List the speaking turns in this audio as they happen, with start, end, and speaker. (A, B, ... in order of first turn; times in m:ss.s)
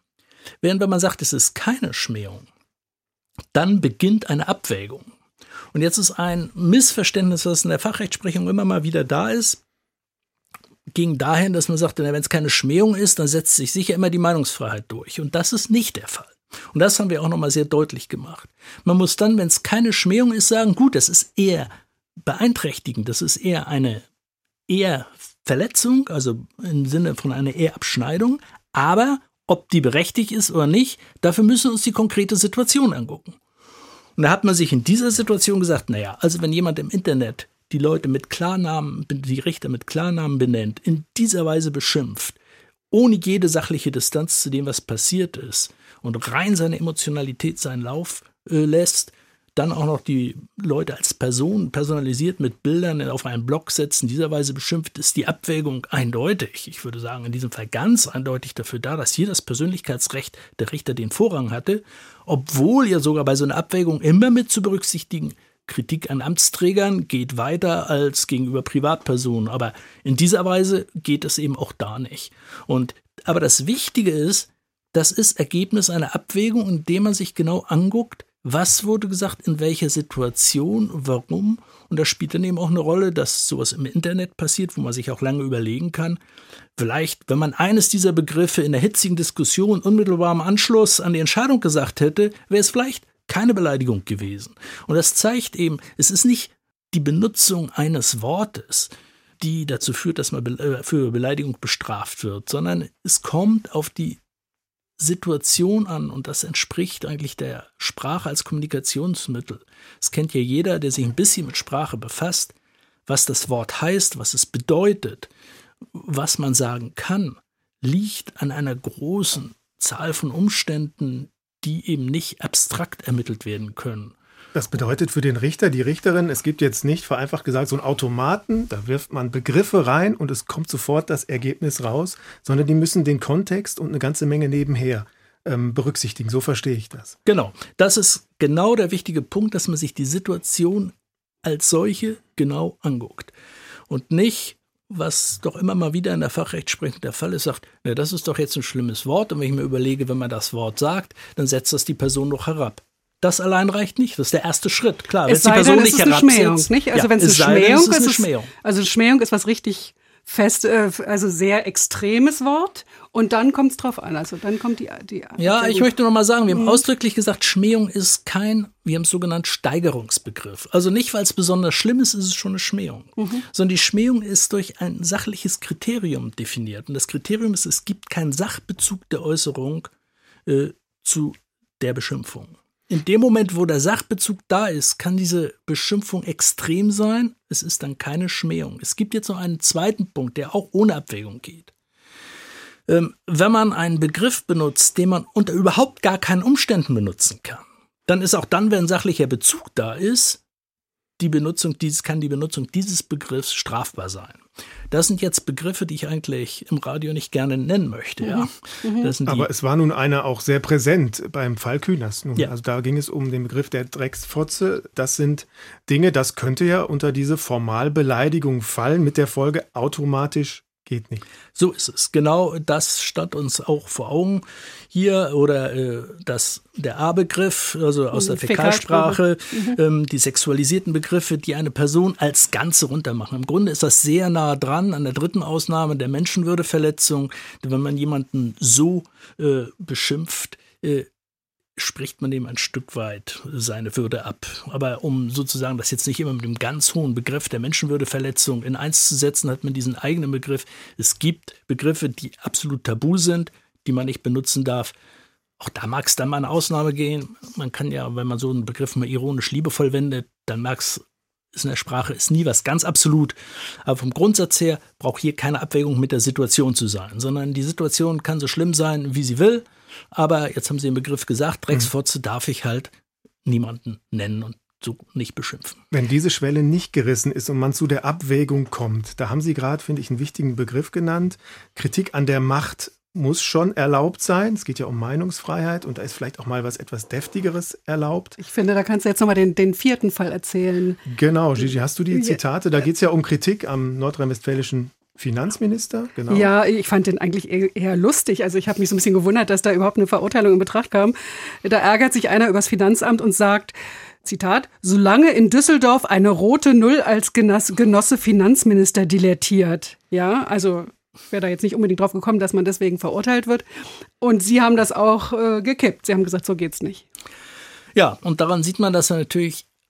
0:00.6-0:02.5 A
0:03.5-0:05.1 A
0:05.7-0:09.6 A
0:10.9-0:21.7 A
0:22.2-0:24.1 A
0:24.7-0:33.4 A
0:34.2-0:42.4 A
0:42.9-1:26.2 A
1:26.8-1:44.2 A
1:45.0-1:52.6 A
1:53.1-1:55.3 A
1:55.9-2:04.2 A
2:04.5-2:17.2 B
2:17.2-2:23.3 A
2:23.9-2:38.5 A
2:35.3-2:45.9 C
2:45.4-2:59.9 A
2:46.5-2:46.8 C
2:53.2-2:53.5 C
3:00.5-3:11.7 A
3:12.9-3:20.4 A
3:21.2-3:29.5 A
3:28.2-3:29.1 C
3:29.3-3:41.2 B
3:41.6-4:01.1 A
3:48.1-3:49.8 C
4:01.8-4:15.0 A
4:15.6-4:21.0 A
4:21.5-4:32.9 A
4:33.4-4:35.8 A
4:35.9-4:48.4 B
4:48.4-4:51.0 C
4:51.1-4:56.5 B
4:52.1-4:52.4 C
4:56.3-5:03.7 C
5:04.2-5:13.6 C
5:14.2-5:17.0 C
5:18.0-5:19.7 A